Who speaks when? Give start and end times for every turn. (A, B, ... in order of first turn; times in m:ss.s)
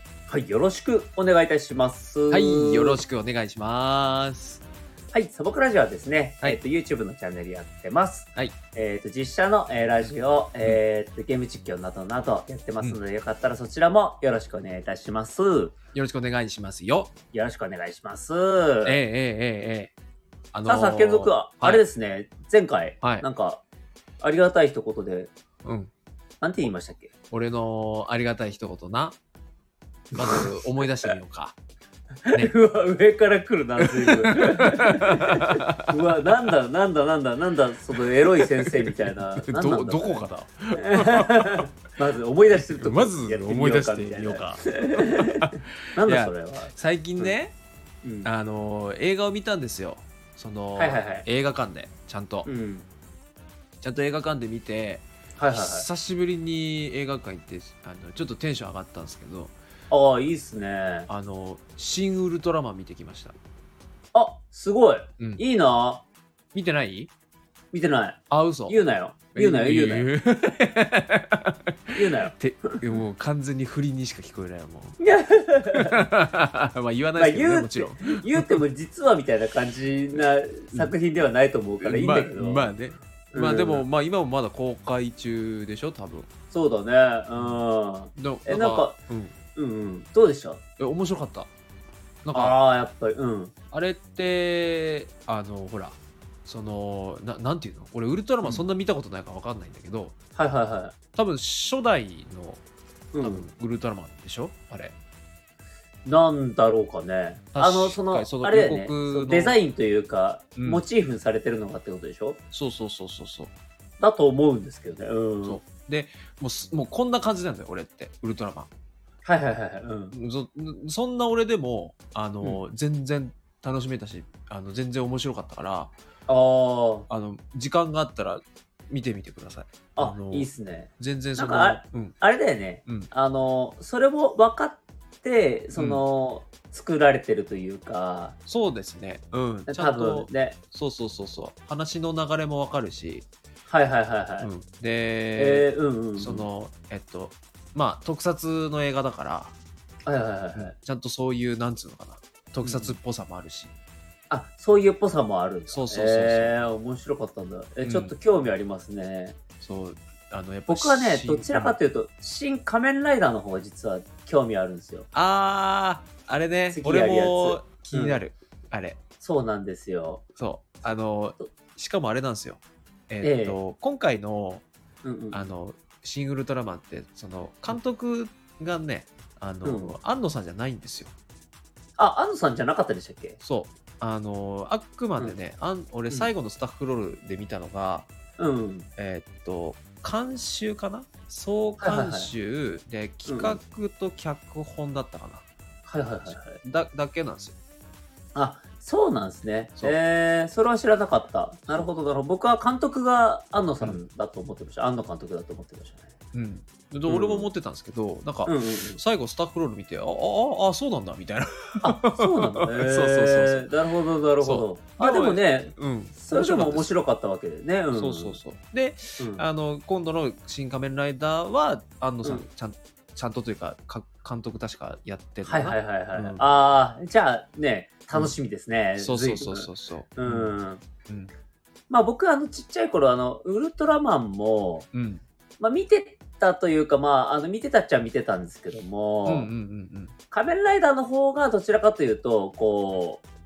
0:00.3-0:03.0 A
0:02.3-0:04.6 B
0:05.1-0:15.8 A
0:15.9-0:17.1 B
0:17.3-0:19.0 A
0:18.8-0:19.9 B
0:20.5-0:21.8 B
0:20.6-0:23.6 A
0:24.2-0:25.3 A
0:25.6-0:25.9 B
0:26.4-0:27.1 A
0:27.3-0:29.2 B
0:30.1-0:31.5 B
0:30.1-0:30.5 A
0:32.3-0:40.2 A
0:33.8-0:36.2 B
0:38.4-0:41.6 B
0:40.8-0:47.3 A
0:42.6-0:47.5 B
0:48.0-0:48.3 A
0:48.2-0:52.5 B
0:50.8-0:51.2 A
0:52.4-0:52.8 A
0:53.8-0:59.5 B
0:55.4-0:55.8 A
0:59.9-1:01.1 A
1:01.1-1:03.3 B
1:04.1-1:06.0 A
1:06.5-1:07.1 B
1:07.7-1:10.1 A
1:08.3-1:08.8 B
1:09.3-1:15.0 B
1:11.9-1:12.8 A
1:15.0-1:16.1 A
1:15.7-1:18.6 B
1:17.2-1:22.7 A
1:21.8-1:26.3 B
1:23.3-1:23.8 A
1:26.5-1:29.0 A
1:27.4-1:27.6 B
1:28.2-1:29.3 B
1:29.5-1:30.6 A
1:30.8-1:31.5 B
1:32.2-1:32.6 B
1:32.3-1:33.5 A
1:33.7-1:40.1 B
1:40.4-1:40.9 A
1:41.1-1:42.6 B
1:43.1-1:43.5 A
1:43.2-1:44.9 B
1:46.0-1:52.4 A
1:47.5-1:49.6 B
1:50.6-1:50.8 B
1:52.5-1:53.5 B
1:54.0-1:55.6 A
1:55.4-1:58.7 B
1:59.2-2:00.2 A
2:00.1-2:05.9 B
2:06.3-2:07.1 A
2:07.1-2:12.2 B
2:10.0-2:18.4 A
2:15.8-2:16.0 B
2:18.5-2:23.2 B
2:19.7-2:20.6 A
2:23.7-2:24.5 A
2:24.4-2:29.5 B
2:25.4-2:26.4 A
2:30.0-2:30.7 A
2:30.6-2:33.7 B
2:32.6-2:33.0 A
2:34.3-2:39.4 A
2:35.7-2:36.5 B
2:37.8-2:38.1 B
2:39.6-2:41.8 B
2:40.7-2:45.1 A
2:45.1-2:49.0 B
2:46.7-2:48.2 A
2:49.2-2:50.2 A
2:50.4-2:54.6 B
2:53.2-2:53.6 A
2:55.0-2:55.4 A
2:55.3-3:01.1 B
2:59.6-3:00.0 A
3:02.0-3:03.4 A
3:03.4-3:08.1 B
3:08.4-3:08.9 A
3:09.0-3:15.4 B
3:11.8-3:12.3 A
3:13.2-3:13.6 A
3:15.9-3:16.6 A
3:16.3-3:17.6 B
3:18.3-3:26.1 A
3:26.3-3:33.7 B
3:27.1-3:27.5 A
3:28.4-3:29.0 A
3:31.8-3:38.4 A
3:34.4-3:37.0 B
3:37.9-3:46.4 B
3:39.2-3:39.4 A
3:45.4-3:50.8 A
3:49.0-3:50.5 B
3:51.9-3:54.9 A
3:54.9-3:55.2 B
3:55.6-3:59.5 A
3:59.2-4:00.1 B
4:00.3-4:03.2 A